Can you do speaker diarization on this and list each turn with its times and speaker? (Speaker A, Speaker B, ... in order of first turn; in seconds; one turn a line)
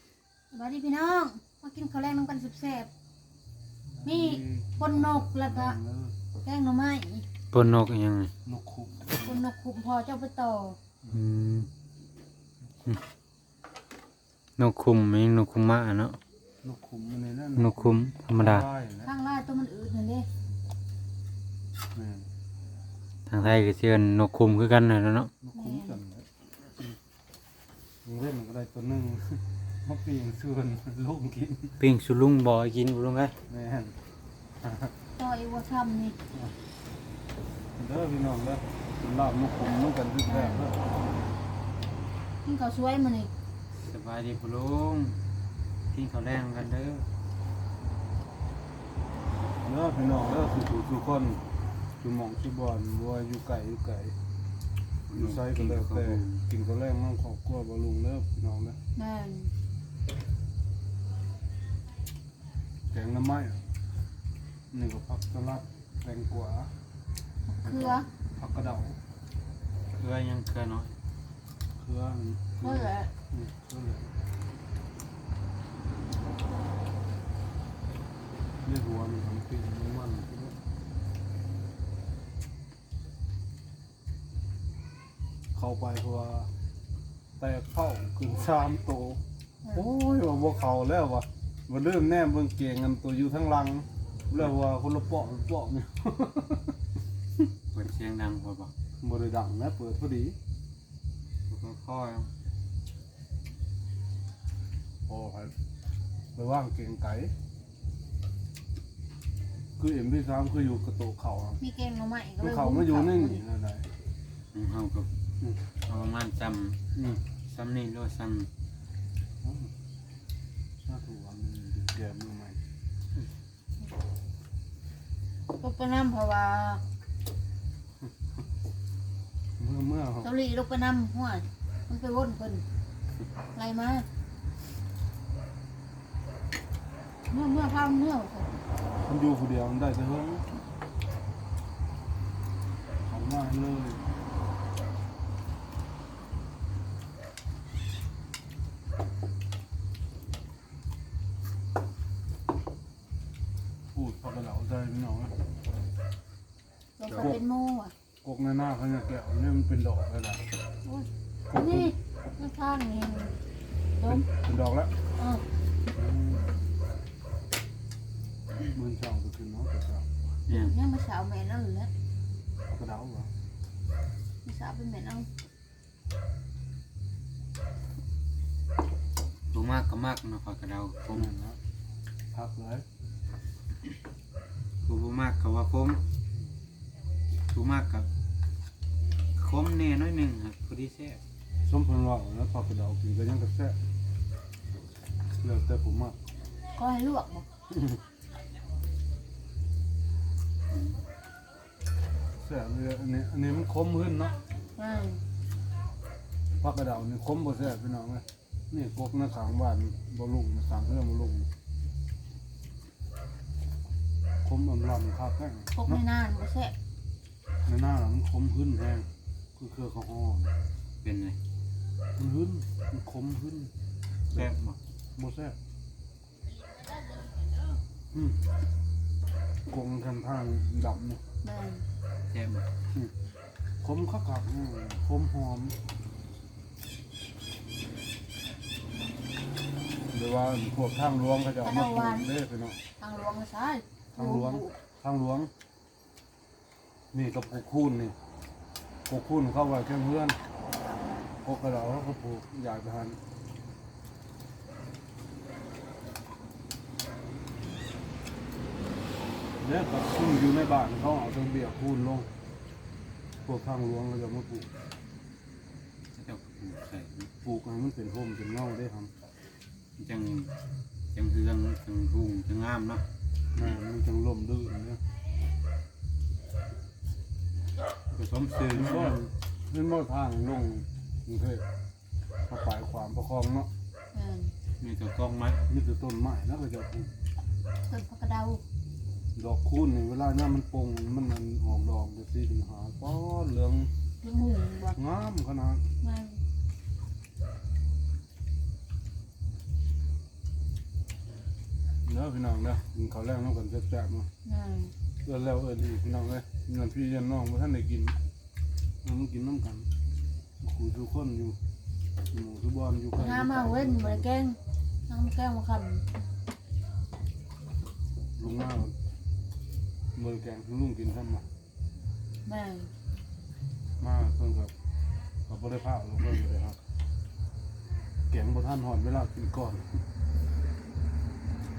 Speaker A: 0.5-2.9
Speaker B: 3.9-6.2
Speaker A: 4.0-5.8
Speaker A: 6.4-7.2
Speaker C: 7.5-8.3
Speaker B: 8.4-9.4
Speaker A: 9.1-10.8
Speaker C: 11.1-11.7
Speaker C: 14.6-16.2
Speaker B: 16.6-19.1
Speaker C: 17.6-18.7
Speaker A: 19.0-20.3
Speaker B: 21.9-22.3
Speaker C: 23.3-25.3
Speaker B: 25.4-26.3
Speaker A: 25.5-26.0
Speaker B: 28.0-31.8
Speaker C: 31.8-33.4
Speaker B: 33.5-34.0
Speaker B: 34.6-34.9
Speaker A: 35.1-36.2
Speaker B: 37.8-40.8
Speaker A: 40.2-40.6
Speaker A: 42.4-43.3
Speaker C: 43.8-45.2
Speaker C: 45.9-47.1
Speaker B: 49.6-51.4
Speaker B: 52.0-54.1
Speaker C: 55.1-56.4
Speaker B: 55.1-58.8
Speaker A: 59.0-59.5
Speaker B: 62.9-63.6
Speaker B: 64.7-66.7
Speaker A: 67.5-68.1
Speaker B: 67.6-69.0
Speaker C: 70.0-71.0
Speaker B: 71.8-74.1
Speaker A: 72.6-73.1
Speaker B: 78.6-80.5
Speaker B: 85.5-86.5
Speaker B: 87.4-96.8
Speaker C: 97.7-98.7
Speaker B: 99.0-100.4
Speaker C: 101.5-102.3
Speaker B: 105.1-105.5
Speaker B: 106.3-107.3
Speaker B: 109.8-111.6
Speaker A: 111.6-113.4
Speaker B: 112.4-113.9
Speaker C: 114.5-115.1
Speaker C: 115.8-116.8
Speaker B: 116.9-117.2
Speaker C: 117.4-118.5
Speaker B: 119.4-119.7
Speaker B: 120.8-122.6
Speaker A: 125.5-126.8
Speaker B: 129.6-130.3
Speaker A: 130.2-132.6
Speaker A: 133.5-134.1
Speaker A: 137.3-138.5
Speaker B: 139.0-140.5
Speaker B: 143.1-144.1
Speaker B: 153.9-155.4
Speaker A: 157.0-157.9
Speaker B: 158.2-160.4
Speaker A: 160.8-163.3
Speaker B: 161.5-161.9
Speaker A: 163.9-164.3
Speaker B: 164.0-165.0
Speaker A: 165.2-165.4
Speaker B: 165.9-166.5
Speaker B: 168.7-170.3
Speaker A: 170.5-171.9
Speaker B: 172.7-173.3
Speaker A: 174.4-175.3
Speaker C: 179.5-181.3
Speaker B: 181.1-181.6
Speaker B: 182.3-182.8
Speaker C: 184.8-186.0
Speaker C: 187.5-188.1
Speaker C: 189.3-191.2
Speaker B: 191.6-193.8
Speaker B: 195.4-196.2
Speaker A: 196.7-197.4
Speaker B: 197.7-198.0
Speaker C: 200.7-201.0
Speaker B: 202.4-204.4
Speaker A: 204.8-205.2
Speaker B: 206.6-211.5
Speaker B: 214.4-216.0
Speaker A: 215.7-216.7
Speaker B: 217.7-220.5
Speaker C: 221.0-221.4
Speaker B: 222.2-223.7
Speaker C: 224.3-224.8
Speaker B: 225.2-225.6
Speaker B: 228.1-228.5
Speaker B: 229.7-231.2
Speaker A: 231.4-231.9
Speaker C: 232.3-232.7
Speaker B: 233.8-235.8
Speaker B: 240.1-242.8
Speaker A: 241.6-242.3
Speaker A: 243.0-244.8
Speaker B: 244.2-245.5
Speaker B: 247.1-248.2
Speaker B: 249.1-250.4
Speaker B: 251.4-253.2
Speaker B: 259.6-262.3
Speaker B: 263.4-264.7
Speaker C: 266.1-267.3
Speaker B: 267.4-269.1
Speaker C: 270.0-270.5
Speaker C: 271.1-273.1
Speaker B: 273.5-275.0
Speaker C: 278.1-279.2
Speaker B: 278.4-281.6
Speaker B: 282.5-283.7
Speaker A: 284.1-284.5
Speaker C: 284.8-285.6
Speaker B: 285.7-287.1
Speaker A: 287.9-288.6
Speaker B: 289.3-293.9
Speaker A: 294.2-295.0
Speaker B: 294.9-295.8
Speaker A: 296.0-296.4
Speaker B: 302.0-304.3
Speaker A: 304.4-304.9
Speaker B: 305.2-308.1
Speaker B: 309.0-309.9
Speaker B: 310.6-311.6
Speaker B: 312.3-314.3
Speaker A: 313.1-316.1
Speaker B: 318.4-318.9
Speaker B: 320.1-321.5
Speaker A: 322.4-322.9
Speaker B: 324.0-324.7
Speaker B: 325.5-326.8
Speaker B: 328.3-330.0